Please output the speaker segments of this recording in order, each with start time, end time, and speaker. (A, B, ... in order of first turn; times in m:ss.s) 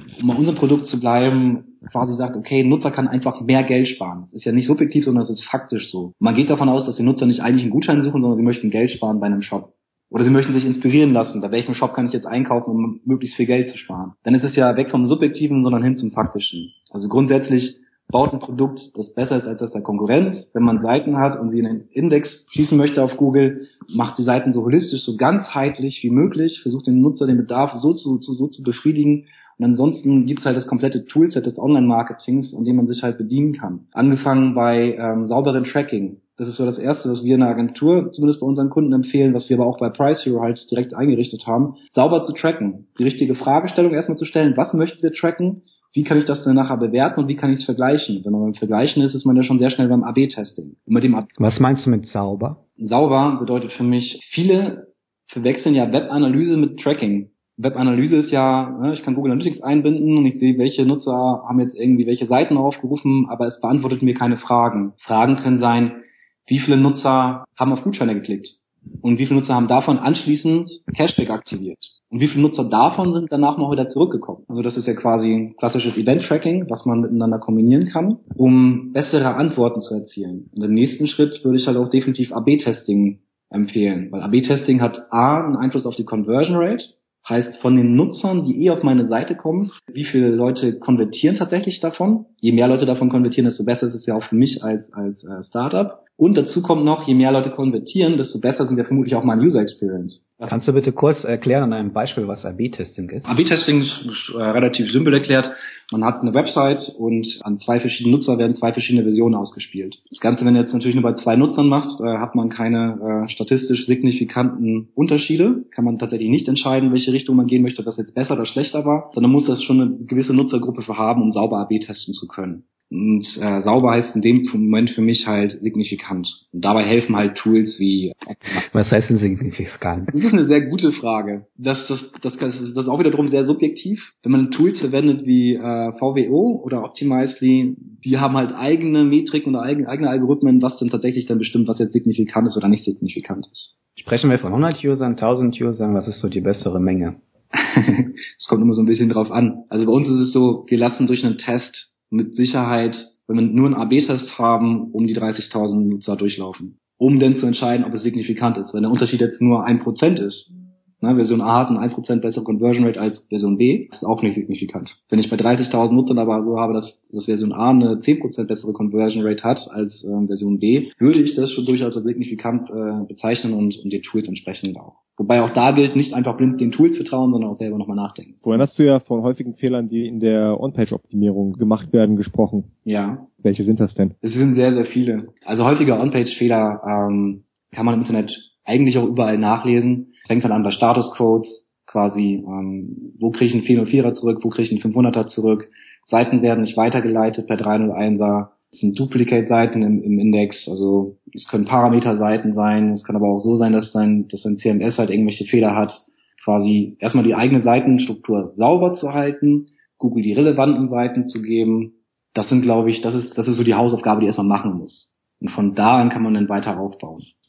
0:00.2-0:51.3 A
0:51.4-0:52.6 B
0:52.8-1:40.4 A
1:40.4-1:43.3 B
1:43.2-2:08.6 A
2:08.5-2:10.1 B
2:10.1-2:23.7 A
2:24.0-2:27.2 B
2:27.6-2:40.5 A
2:41.0-2:58.5 A
2:58.4-3:02.7 C
3:02.8-3:03.3 A
3:03.4-3:04.1 C
3:04.2-3:37.3 A